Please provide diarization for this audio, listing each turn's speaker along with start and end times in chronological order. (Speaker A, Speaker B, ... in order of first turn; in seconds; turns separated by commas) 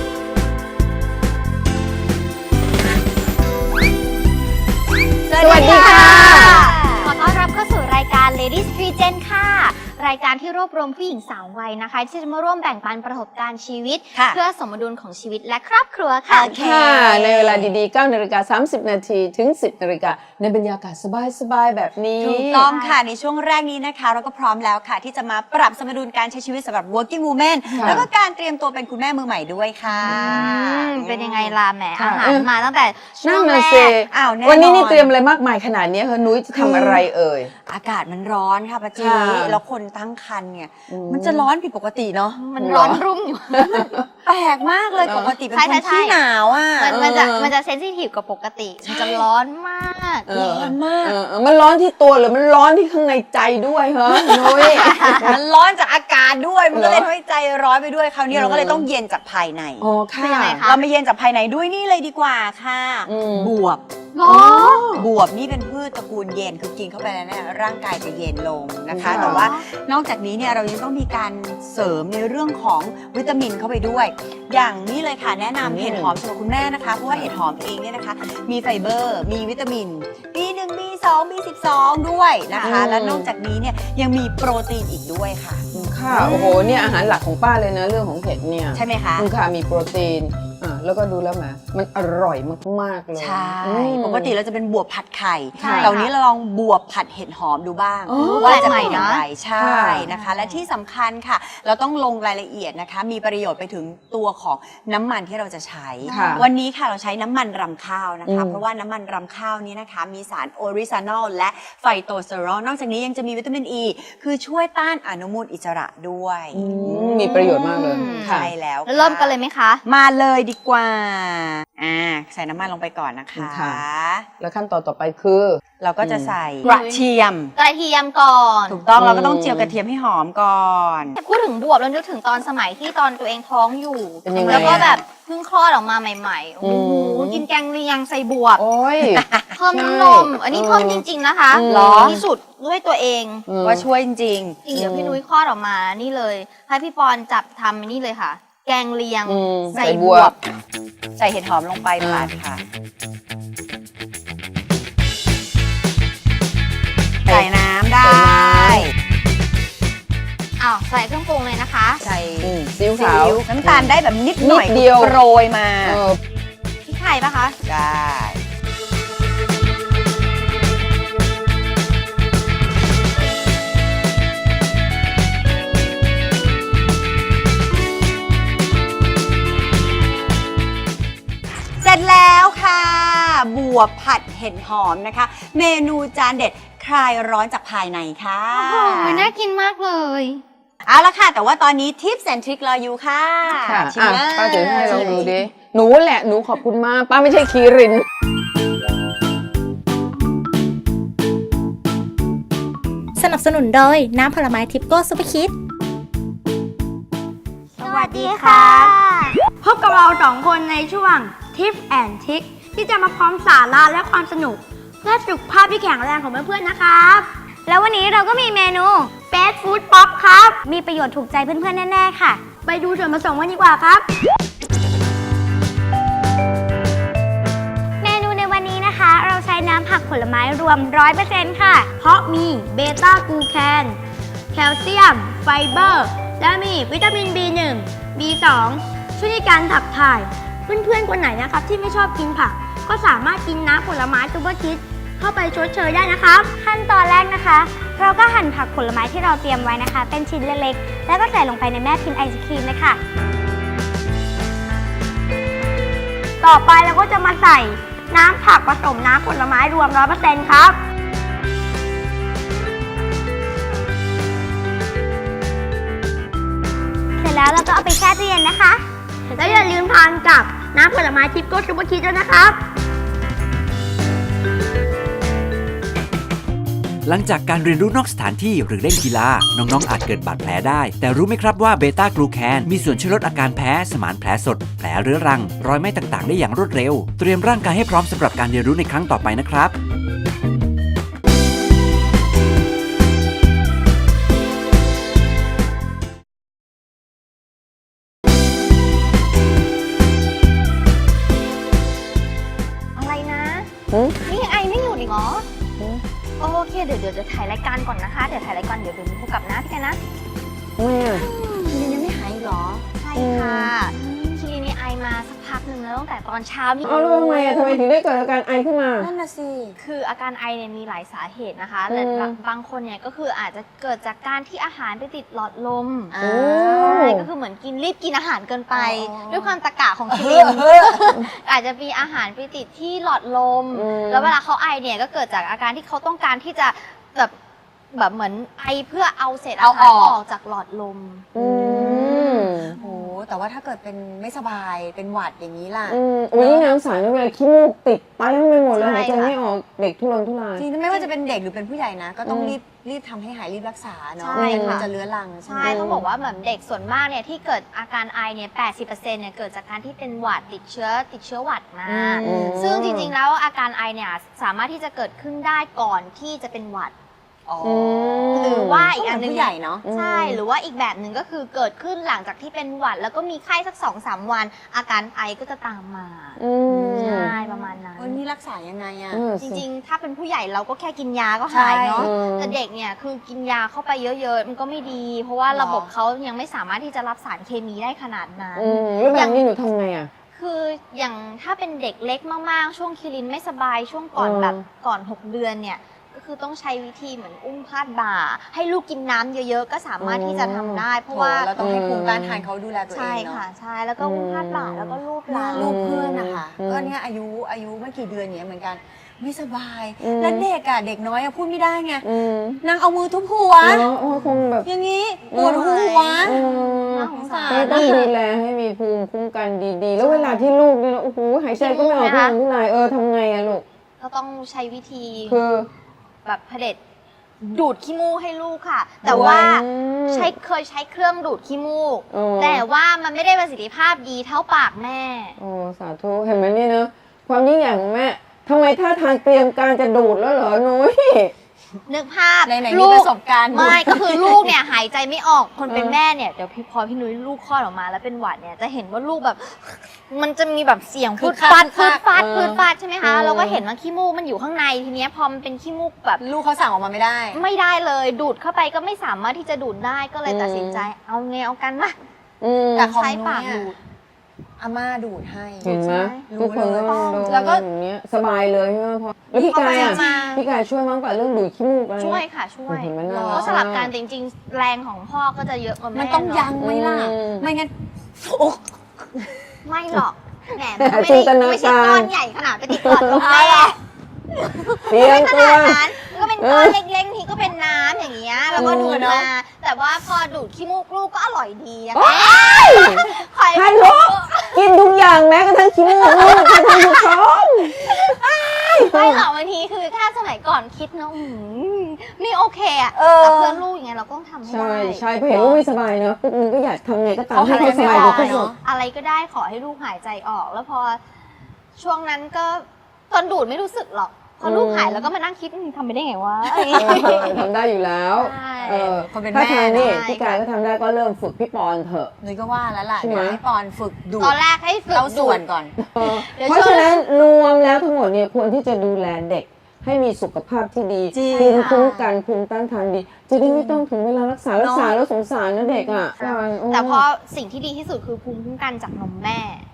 Speaker A: 5.3-7.1, Speaker B: 5.3-16.5, Speaker C: 5.4-6.7, Speaker A: 14.1-14.4, Speaker A: 16.3-17.7, Speaker C: 16.5-22.7, Speaker A: 22.2-31.6, Speaker B: 22.7-23.0, Speaker C: 27.7-28.1, Speaker C: 30.1-30.5, Speaker B: 30.1-34.0, Speaker C: 32.0-32.5, Speaker C: 33.2-37.5, Speaker A: 34.1-35.1, Speaker A: 36.5-37.0, Speaker A: 37.6-42.4, Speaker C: 39.0-39.6, Speaker C: 40.9-41.5, Speaker B: 42.4-43.9, Speaker C: 42.6-44.0, Speaker A: 44.2-47.3, Speaker C: 45.0-45.3, Speaker B: 45.5-46.2, Speaker B: 46.8-50.3, Speaker C: 46.8-47.5, Speaker A: 48.8-49.3, Speaker C: 50.3-55.4, Speaker A: 50.3-51.2, Speaker A: 54.2-59.9, Speaker B: 54.4-55.2, Speaker C: 56.7-57.1, Speaker C: 58.3-58.9, Speaker C: 59.8-60.6, Speaker B: 60.1-60.8, Speaker A: 60.6-87.1, Speaker C: 63.0-63.5, Speaker B: 64.1-65.0, Speaker C: 64.2-65.0, Speaker C: 68.9-69.5, Speaker B: 69.0-69.7, Speaker C: 75.6-76.2, Speaker C: 77.1-77.3, Speaker C: 82.5-83.3, Speaker C: 85.7-94.3, Speaker A: 88.7-89.3, Speaker A: 93.2-124.3, Speaker C: 95.6-95.9, Speaker B: 95.6-96.1, Speaker C: 98.0-100.1, Speaker B: 98.1-99.2, Speaker B: 100.1-100.7, Speaker B: 106.0-106.5, Speaker C: 106.1-106.5, Speaker C: 108.2-108.6, Speaker C: 116.5-118.5, Speaker B: 117.2-119.8, Speaker C: 123.3-123.8, Speaker C: 124.4-126.8, Speaker A: 125.8-127.5, Speaker B: 126.6-127.0, Speaker B: 127.5-128.8, Speaker A: 128.7-131.2, Speaker C: 128.9-129.8, Speaker B: 131.2-138.6, Speaker C: 134.2-134.9, Speaker A: 134.4-135.0, Speaker C: 136.6-137.4, Speaker C: 138.6-142.2, Speaker A: 139.0-139.5, Speaker B: 139.6-143.5, Speaker A: 141.7-142.2, Speaker C: 143.5-143.9, Speaker A: 143.6-144.9, Speaker B: 144.7-150.3, Speaker C: 144.7-145.2, Speaker C: 149.2-150.3, Speaker A: 151.2-152.6, Speaker C: 152.0-152.3, Speaker A: 157.2-158.9, Speaker C: 158.0-158.9, Speaker B: 160.6-162.0, Speaker A: 162.0-166.0, Speaker C: 162.4-165.2, Speaker C: 165.8-166.2, Speaker B: 166.8-167.6, Speaker A: 167.6-168.4, Speaker A: 181.8-189.3, Speaker B: 188.5-190.4, Speaker A: 190.8-195.3, Speaker C: 193.6-198.1, Speaker B: 194.5-195.3, Speaker D: 203.2-205.5, Speaker E: 207.8-209.3, Speaker D: 207.8-208.9, Speaker F: 209.6-217.3, Speaker E: 217.7-219.1, Speaker F: 219.3-220.6, Speaker E: 220.6-222.4, Speaker F: 222.6-224.1, Speaker E: 228.0-231.9, Speaker F: 231.9-234.0, Speaker F: 234.5-246.5, Speaker E: 246.6-253.0, Speaker F: 256.4-260.8, Speaker E: 267.2-268.8, Speaker F: 269.3-272.6, Speaker G: 277.1-289.7, Speaker B: 302.9-303.7, Speaker C: 303.9-304.2, Speaker B: 304.2-305.4, Speaker B: 306.4-310.0, Speaker C: 310.8-311.2, Speaker B: 311.2-311.8, Speaker A: 311.6-312.9, Speaker B: 313.0-317.6, Speaker C: 313.1-313.7, Speaker A: 313.9-314.4, Speaker C: 316.8-319.1, Speaker A: 319.0-319.8, Speaker B: 319.8-337.3, Speaker C: 321.9-322.4, Speaker A: 326.1-327.1, Speaker C: 326.2-327.3, Speaker A: 328.7-329.5, Speaker A: 330.1-331.1, Speaker C: 333.7-334.3, Speaker B: 337.9-341.3, Speaker A: 339.6-340.2, Speaker C: 341.3-342.8, Speaker A: 341.3-346.6, Speaker B: 341.9-343.1, Speaker C: 345.9-350.6, Speaker B: 348.7-349.3, Speaker A: 350.6-356.0, Speaker C: 352.2-352.6, Speaker B: 354.2-354.9, Speaker C: 354.3-354.9, Speaker B: 355.4-366.9, Speaker C: 355.6-356.0, Speaker C: 361.9-363.1, Speaker A: 362.1-362.7, Speaker A: 367.4-369.9, Speaker C: 367.6-368.9, Speaker B: 368.3-378.2, Speaker C: 369.9-370.4, Speaker C: 376.4-377.3, Speaker A: 376.6-379.2, Speaker C: 379.1-379.6, Speaker B: 379.4-389.4, Speaker A: 381.5-382.1, Speaker C: 381.9-382.6, Speaker A: 385.5-385.9, Speaker C: 388.6-390.1, Speaker B: 390.3-401.5, Speaker C: 394.2-394.6, Speaker C: 400.0-400.8, Speaker A: 401.1-403.4, Speaker C: 401.6-402.5, Speaker B: 402.9-405.9, Speaker C: 404.0-405.0, Speaker A: 405.3-412.1, Speaker C: 405.5-406.9, Speaker C: 410.0-410.5, Speaker C: 412.0-412.6, Speaker A: 412.6-413.9, Speaker C: 413.6-414.7, Speaker A: 414.6-416.4, Speaker C: 415.3-423.6, Speaker B: 415.5-418.1, Speaker A: 417.0-418.0, Speaker B: 420.1-420.4, Speaker B: 421.6-422.4, Speaker B: 424.0-425.4, Speaker C: 425.2-425.7, Speaker B: 426.2-426.8, Speaker B: 427.4-435.4, Speaker C: 429.0-430.3, Speaker A: 429.0-429.5, Speaker C: 432.1-432.6, Speaker C: 435.4-441.3, Speaker B: 441.9-456.2, Speaker A: 442.4-444.5, Speaker C: 445.7-446.0, Speaker A: 451.1-452.0, Speaker C: 452.1-453.6, Speaker A: 456.2-457.4, Speaker B: 457.3-461.9, Speaker C: 460.2-460.9, Speaker C: 462.4-463.0, Speaker A: 462.8-463.7, Speaker B: 462.8-463.8, Speaker A: 464.6-467.6, Speaker C: 465.6-473.9, Speaker B: 465.6-467.5, Speaker B: 469.3-470.4, Speaker A: 469.4-470.3, Speaker B: 472.0-476.5, Speaker A: 473.0-473.6, Speaker A: 475.9-479.4, Speaker C: 476.5-477.5, Speaker B: 479.6-483.8, Speaker C: 480.8-482.1, Speaker C: 482.7-483.2, Speaker A: 483.1-483.7, Speaker B: 484.4-494.7, Speaker C: 484.9-486.8, Speaker A: 488.4-489.3, Speaker C: 488.6-489.1, Speaker C: 491.9-497.7, Speaker B: 496.0-497.1, Speaker B: 497.9-498.2, Speaker A: 498.2-498.8, Speaker B: 498.7-505.5, Speaker C: 498.8-499.2, Speaker A: 502.9-503.6, Speaker C: 504.4-508.5, Speaker A: 507.3-508.6, Speaker B: 507.4-511.0, Speaker B: 511.8-517.4, Speaker C: 514.4-515.1, Speaker A: 516.4-517.4, Speaker C: 516.7-522.1, Speaker B: 518.1-518.9, Speaker A: 518.7-520.0, Speaker B: 519.7-520.4, Speaker A: 522.2-525.8, Speaker C: 523.0-523.4, Speaker B: 524.2-525.4, Speaker C: 525.8-537.0, Speaker B: 526.0-527.0, Speaker A: 531.1-532.1, Speaker B: 531.3-531.9, Speaker A: 533.3-533.8, Speaker A: 534.5-535.0, Speaker B: 535.8-539.6